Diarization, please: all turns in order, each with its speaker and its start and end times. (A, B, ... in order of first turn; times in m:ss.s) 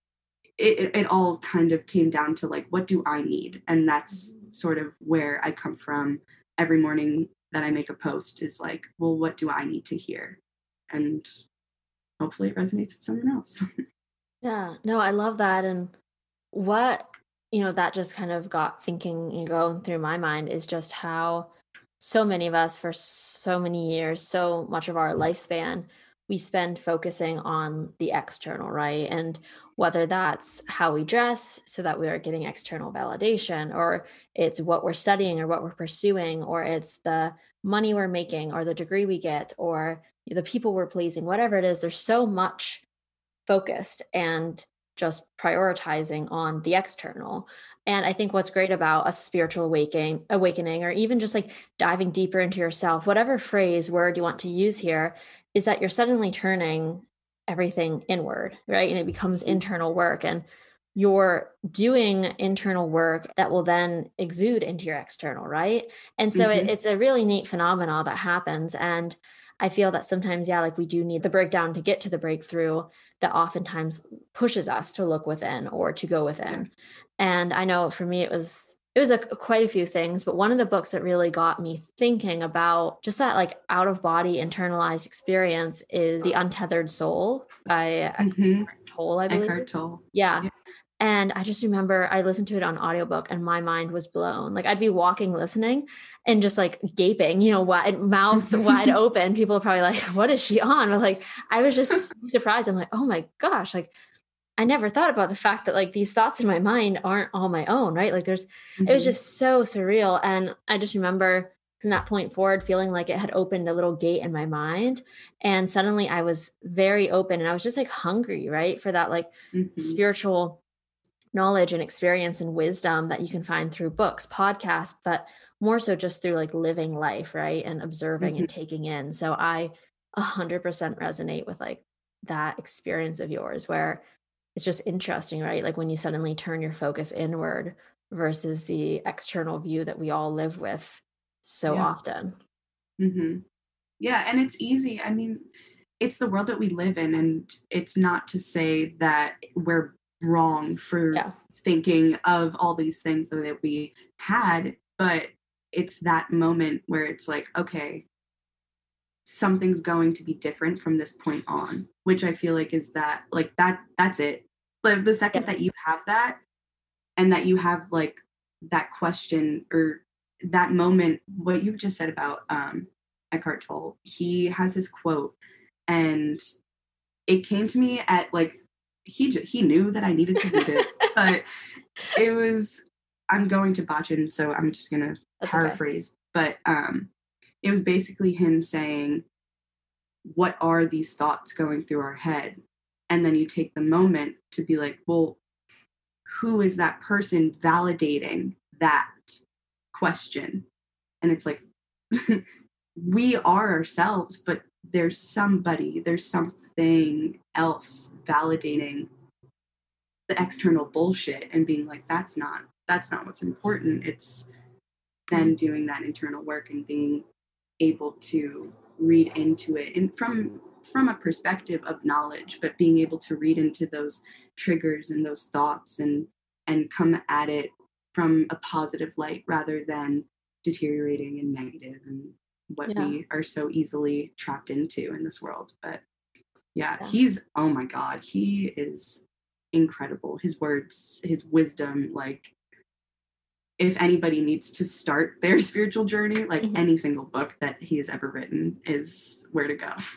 0:00.6-0:10.4 A
0:10.9-0:11.3 A
0:12.2-0:13.6 A
0:14.4-0:15.9 B
0:16.5-0:42.8 B
0:43.5-1:30.5 B
1:06.3-1:06.7 A
1:28.2-1:28.7 A
1:29.3-1:30.5 A
1:31.0-1:43.9 B
1:38.4-1:38.9 A
1:44.6-2:00.6 B
1:48.8-1:49.2 A
1:59.5-2:00.0 A
2:01.3-2:14.0 B
2:08.2-2:08.5 A
2:14.5-2:22.4 B
2:23.0-2:23.4 A
2:24.0-2:25.5 A
2:26.0-2:38.0 A
2:39.2-2:46.4 A
2:45.3-2:45.6 B
2:47.2-2:55.4 A
2:55.9-2:56.4 A
2:57.3-3:01.4 A
3:00.4-3:01.1 B
3:02.1-3:07.1 A
3:05.4-3:05.8 B
3:07.6-3:09.2 A
3:10.2-3:15.4 A
3:16.3-3:19.4 A
3:19.9-3:20.6 A
3:21.2-3:22.4 A
3:23.0-3:29.1 A
3:30.3-3:34.5 A
3:35.3-3:37.2 A
3:37.8-3:56.0 A
3:52.9-3:53.2 B
3:56.7-4:02.5 A
4:03.8-4:10.0 A